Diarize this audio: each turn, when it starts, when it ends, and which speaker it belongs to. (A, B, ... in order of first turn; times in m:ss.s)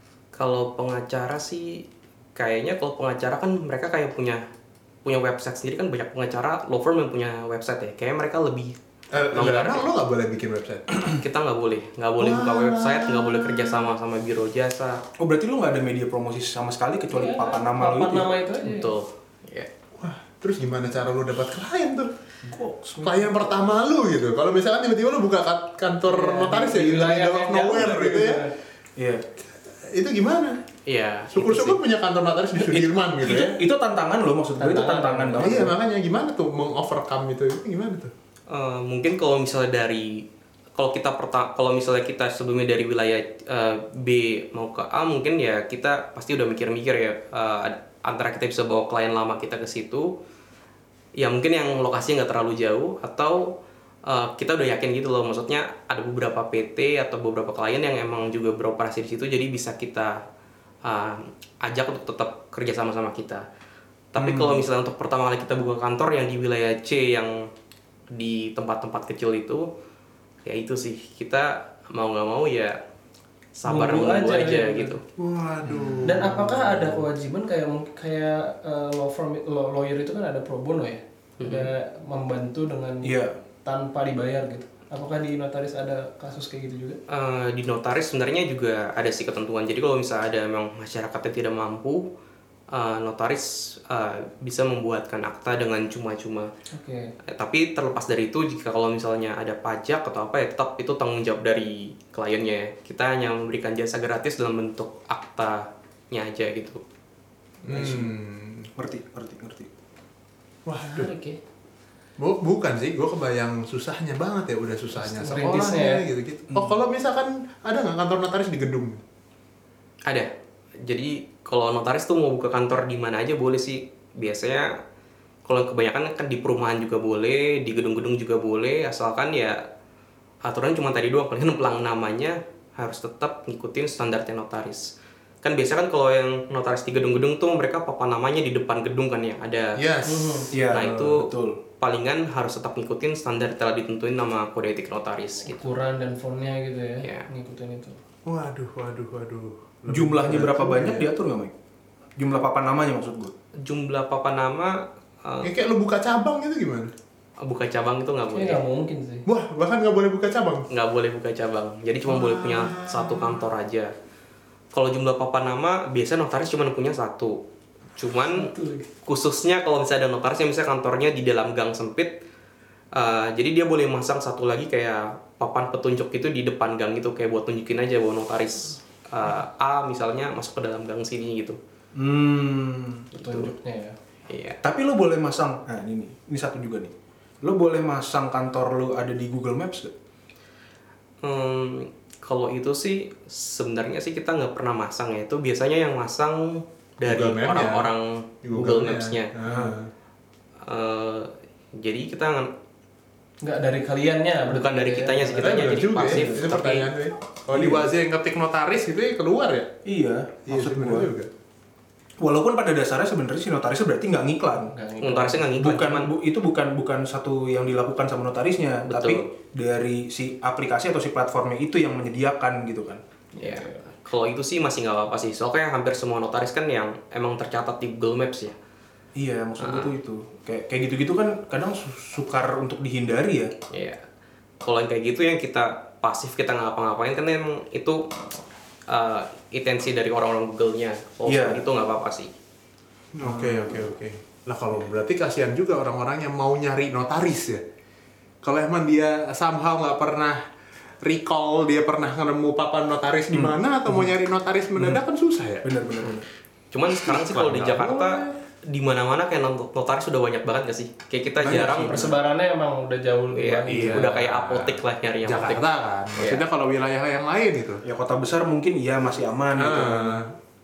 0:00.3-0:04.4 A
0:05.0-0:08.8 A
0:09.1-0:10.8 B
0:09.3-0:09.9 A
0:11.1-0:15.0 A
0:12.2-0:13.9 B
0:15.2-0:18.4 C
0:17.1-0:18.9 D
0:18.6-0:19.7 A
0:20.0-0:22.1 B
0:22.4-0:23.7 C
0:23.0-0:28.4 B
0:26.1-0:28.5 D
0:29.0-0:29.2 C
0:29.6-0:30.6 B
0:30.9-0:31.8 A
0:31.3-0:33.6 B
0:32.5-0:35.8 C
0:34.6-0:35.5 D
0:35.4-0:38.1 B
0:38.5-0:50.2 A
0:51.2-1:00.2 A
1:00.8-1:03.4 A
1:04.1-1:07.5 A
1:04.2-1:04.6 B
1:08.1-1:09.7 A
1:10.4-1:12.8 A
1:13.6-1:15.0 A
1:13.6-1:14.9 D
1:15.2-1:17.0 B
1:16.0-1:27.0 D
1:21.4-1:21.7 A
1:23.0-1:23.4 C
1:27.1-1:32.1 A
1:32.7-1:36.5 A
1:36.7-1:37.1 D
1:37.2-1:46.8 A
1:47.6-1:48.7 B
1:47.6-1:48.1 C
1:48.8-1:49.7 C
1:50.6-1:51.1 B
1:50.8-1:51.4 D
1:52.2-1:59.0 B
1:55.0-1:56.0 D
2:00.8-2:04.7 A
2:05.4-2:09.6 A
2:10.4-2:14.9 A
2:15.4-2:19.8 A
2:19.8-2:20.9 B
2:20.0-2:20.5 D
2:20.5-2:21.6 C
2:20.7-2:25.6 A
2:25.4-2:28.0 D
2:28.2-2:31.1 B
2:29.9-2:31.5 C
2:32.2-2:33.3 C
2:33.6-2:35.5 A
2:35.4-2:36.9 B
2:37.4-2:38.6 A
2:38.3-2:39.2 D
2:39.2-2:40.6 B
2:40.7-2:43.9 A
2:42.0-2:43.5 B
2:44.7-2:47.4 A
2:48.0-2:48.5 A
2:48.3-2:48.9 D
2:49.0-2:52.2 A
2:52.9-3:01.6 A
3:01.9-3:03.1 C
3:03.1-3:04.0 D
3:03.2-3:03.5 A
3:04.3-3:04.6 A
3:04.6-3:09.9 C
3:11.2-3:19.3 A
3:17.0-3:17.9 B
3:18.4-3:19.9 B
3:19.4-3:19.8 C
3:20.6-3:22.5 A
3:23.4-3:25.7 D
3:24.5-3:26.9 A
3:25.4-3:29.7 B
3:26.0-3:26.5 C
3:27.5-3:27.9 C
3:29.8-3:31.1 C
3:30.5-3:31.3 B
3:32.2-3:34.7 C
3:34.7-3:35.5 D
3:35.0-3:36.1 A
3:35.6-3:43.0 C
3:38.8-3:39.2 A
3:43.3-3:43.8 D
3:43.4-3:48.6 A
3:49.2-3:53.5 C
3:49.6-3:49.9 A
3:53.7-3:54.0 A
3:54.6-3:58.1 A
3:58.9-4:02.3 A
4:01.2-4:01.6 C
4:03.1-4:07.6 B
4:03.2-4:03.9 C
4:08.4-4:10.4 B
4:11.0-4:15.7 B
4:13.3-4:14.1 C
4:15.6-4:16.3 C
4:16.7-4:22.1 A
4:17.0-4:18.4 B
4:21.4-4:22.1 B
4:21.7-4:24.1 D
4:23.3-4:25.6 A
4:23.7-4:27.8 B
4:26.2-4:26.4 A
4:27.8-4:30.2 C
4:29.6-4:30.3 B